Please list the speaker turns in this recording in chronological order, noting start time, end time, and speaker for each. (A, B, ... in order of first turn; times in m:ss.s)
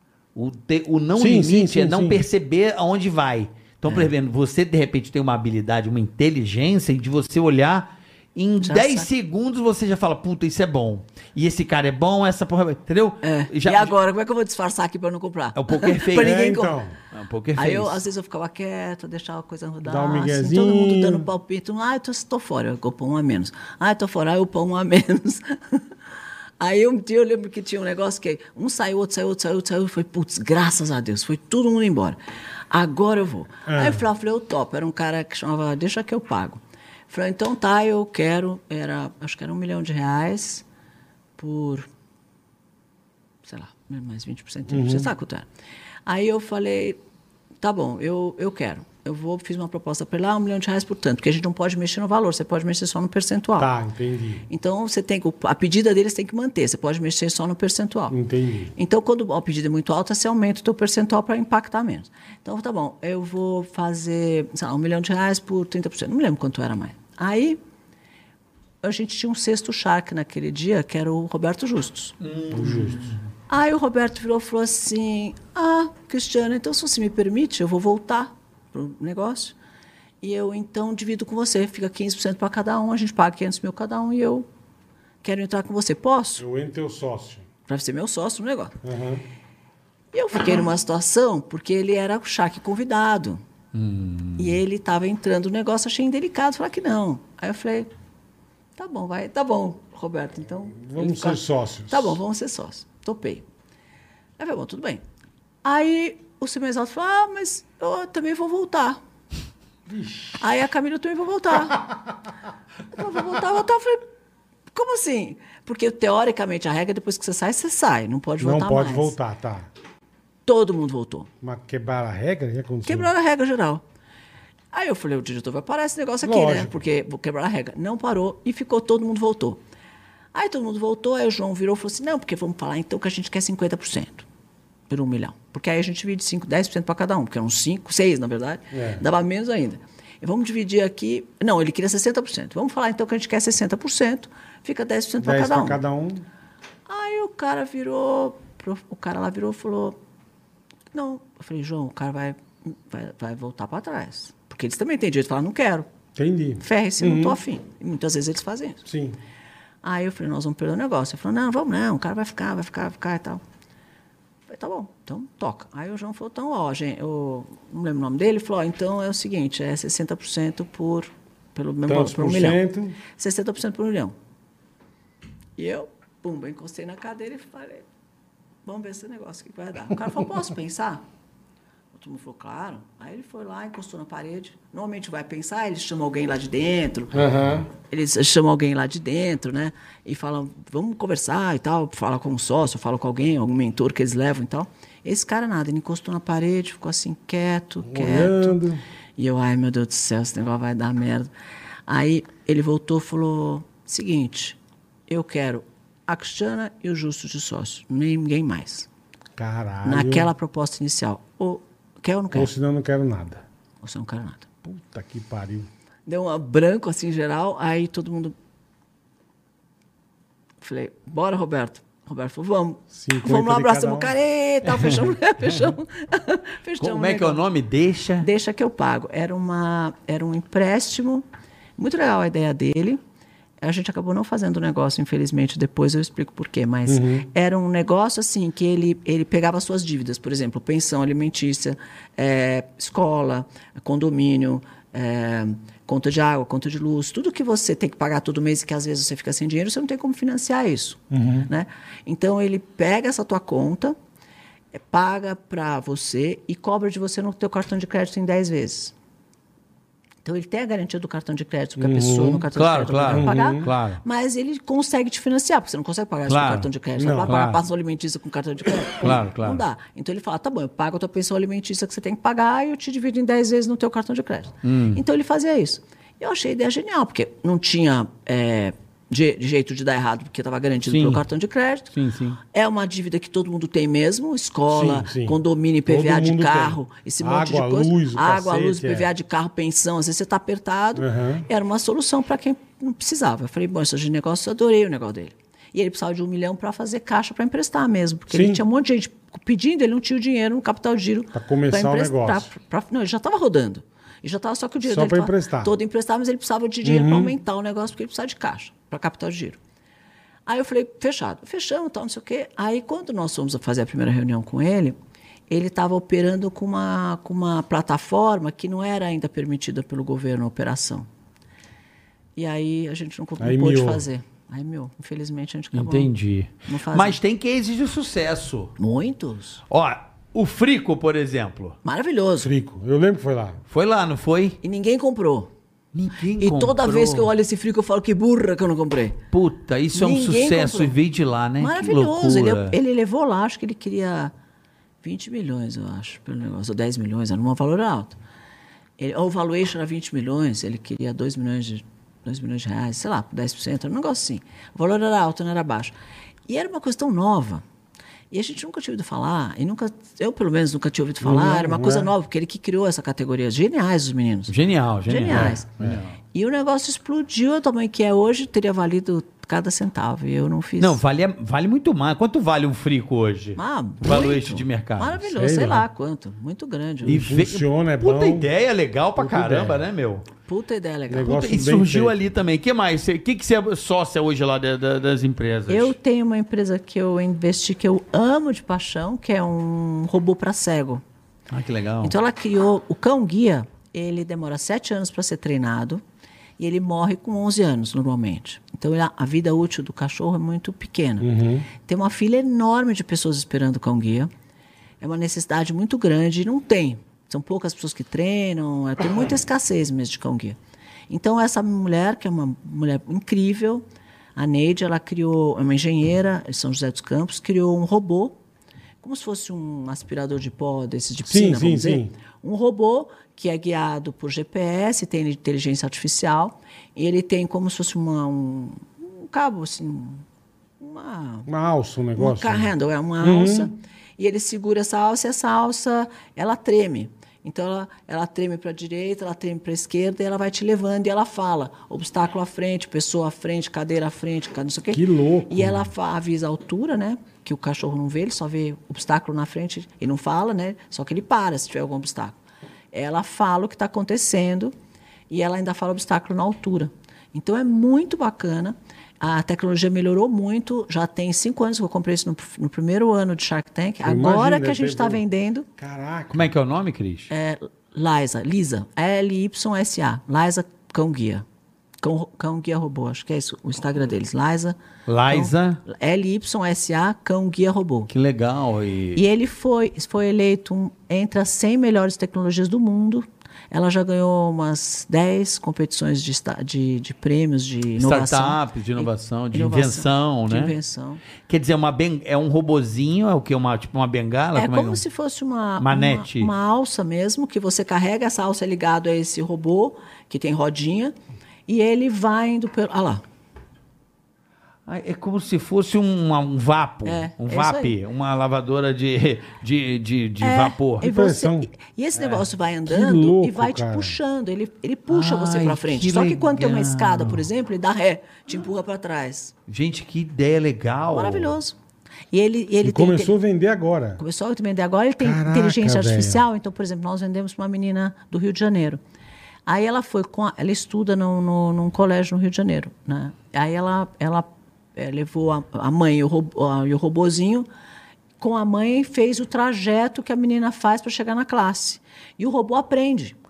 0:00.3-0:13.9 A
0:01.2-0:02.2 B
0:08.6-0:09.1 C
0:13.2-0:16.8 C
0:15.5-0:16.5 A
0:16.2-0:17.0 B
0:17.1-0:18.0 A
0:17.6-0:25.8 C
0:19.8-0:21.3 B
0:26.6-0:32.2 C
0:32.7-0:40.6 C
0:33.7-0:34.0 B
0:41.4-0:41.9 C
0:43.4-0:45.4 C
0:44.7-0:45.1 B
0:46.0-0:47.0 C
0:47.6-0:53.7 C
0:53.6-0:54.4 B
0:54.5-0:58.2 C
0:58.1-0:58.7 B
0:58.8-1:07.6 C
1:08.8-1:12.2 C
1:12.2-1:13.2 A
1:12.5-1:13.1 B
1:13.5-1:19.5 C
1:20.2-1:24.5 C
1:25.2-1:26.4 C
1:26.4-1:27.4 B
1:27.7-1:28.8 C
1:28.8-1:29.2 B
1:30.1-1:33.4 C
1:33.7-1:34.6 A
1:34.4-1:37.9 C
1:38.8-1:43.4 C
1:40.7-1:42.2 B
1:44.4-1:45.0 C
1:45.6-1:49.0 C
1:49.9-1:50.4 B
1:50.4-1:51.8 C
1:52.9-1:54.0 C
1:54.7-1:59.1 C
1:58.4-1:59.7 B
2:00.4-2:01.3 C
2:01.4-2:03.1 B
2:02.8-2:03.8 C
2:04.7-2:09.6 C
2:06.2-2:06.8 B
2:10.3-2:14.2 C
2:14.9-2:25.8 C
2:18.7-2:19.0 B
2:25.2-2:26.2 B
2:26.9-2:30.0 C
2:30.9-2:35.9 C
2:36.2-2:37.4 B
2:36.6-2:38.8 C
2:38.8-2:39.2 B
2:39.8-2:43.4 C
2:44.5-2:52.6 C
2:51.9-2:53.0 B
2:53.1-2:54.1 C
2:55.6-2:57.8 C
2:58.6-3:01.0 C
3:01.9-3:18.6 C
3:07.1-3:07.7 B
3:17.8-3:18.8 B
3:19.2-3:21.3 C
3:21.9-3:28.9 C
3:29.4-3:30.3 B
3:29.8-3:32.5 C
3:32.3-3:33.4 B
3:33.8-3:34.5 C
3:34.6-3:35.7 B
3:36.0-3:38.3 C
3:40.6-3:47.4 C
3:42.9-3:44.2 B
3:44.7-3:45.6 A
3:46.8-3:48.3 A
3:48.2-3:51.2 C
3:51.8-3:53.0 C
3:53.6-4:14.0 C
3:56.9-3:57.3 B
4:11.1-4:11.5 B
4:14.7-4:18.9 C
4:20.2-4:41.9 C
4:21.8-4:22.4 B
4:22.5-4:24.0 A
4:23.1-4:23.7 B
4:26.3-4:26.7 A
4:27.0-4:27.3 B
4:27.2-4:27.6 A
4:28.9-4:29.6 A
4:34.6-4:35.0 A
4:40.9-4:41.2 A
4:41.9-4:42.4 A
4:42.5-5:09.6 C
4:44.7-4:49.1 B
4:51.0-4:51.4 B
4:58.3-4:58.6 B
5:01.3-5:02.5 B
5:04.8-5:05.7 B
5:06.8-5:07.3 B
5:10.4-5:15.0 C
5:15.5-5:21.1 C
5:22.4-5:26.1 C
5:23.4-5:24.0 B
5:25.7-5:28.7 A
5:26.6-5:27.2 C
5:28.8-5:29.6 C
5:29.7-5:31.8 A
5:31.8-5:32.5 C
5:32.4-5:33.6 B
5:33.7-5:34.6 A
5:34.6-5:35.5 C
5:35.9-5:37.3 A
5:36.4-5:39.2 C
5:39.3-5:42.8 A
5:39.9-5:41.0 C
5:41.6-5:44.3 C
5:45.0-5:48.2 C
5:49.0-5:55.9 C
5:56.5-5:57.6 C
5:58.3-6:04.5 C
6:01.2-6:02.1 B
6:04.5-6:06.1 A
6:05.0-6:05.7 C
6:05.3-6:06.0 B
6:06.2-6:11.0 C
6:10.8-6:15.2 A
6:13.6-6:17.2 C
6:15.2-6:15.9 B
6:17.0-6:18.5 B
6:17.0-6:20.2 A
6:19.2-6:19.8 B
6:20.5-6:21.4 C
6:21.1-6:22.2 B
6:21.2-6:25.9 A
6:25.7-6:31.0 C
6:31.5-6:32.2 A
6:32.0-6:36.0 C
6:36.6-6:41.3 C
6:41.2-6:41.7 B
6:41.8-6:44.3 C
6:45.0-6:50.6 C
6:51.1-6:53.8 C
6:54.4-6:58.4 C
6:59.0-7:10.2 C
7:01.2-7:02.1 B
7:10.8-7:11.5 C
7:11.4-7:13.7 B
7:12.2-7:32.4 C
7:24.9-7:25.9 B
7:32.9-7:34.7 C
7:35.3-7:45.7 C
7:44.0-7:45.2 B
7:45.8-7:46.5 B
7:46.3-7:47.3 A
7:47.3-7:51.4 C
7:52.0-7:58.1 C
7:55.1-7:55.8 A
7:58.1-7:59.2 A
7:59.1-8:11.2 C
8:08.0-8:10.7 A
8:11.4-8:15.0 A
8:14.5-8:21.1 C
8:15.8-8:16.5 A
8:21.7-8:23.2 C
8:24.9-8:31.1 A
8:27.0-8:27.9 C
8:30.4-8:39.5 C
8:31.0-8:31.7 B
8:32.8-8:34.2 B
8:35.1-8:37.4 A
8:39.7-8:41.5 A
8:41.1-8:41.8 C
8:42.3-8:43.3 C
8:42.8-8:44.2 B
8:44.2-8:49.0 C
8:45.2-8:46.4 B
8:49.6-8:57.7 C
8:58.4-9:03.4 C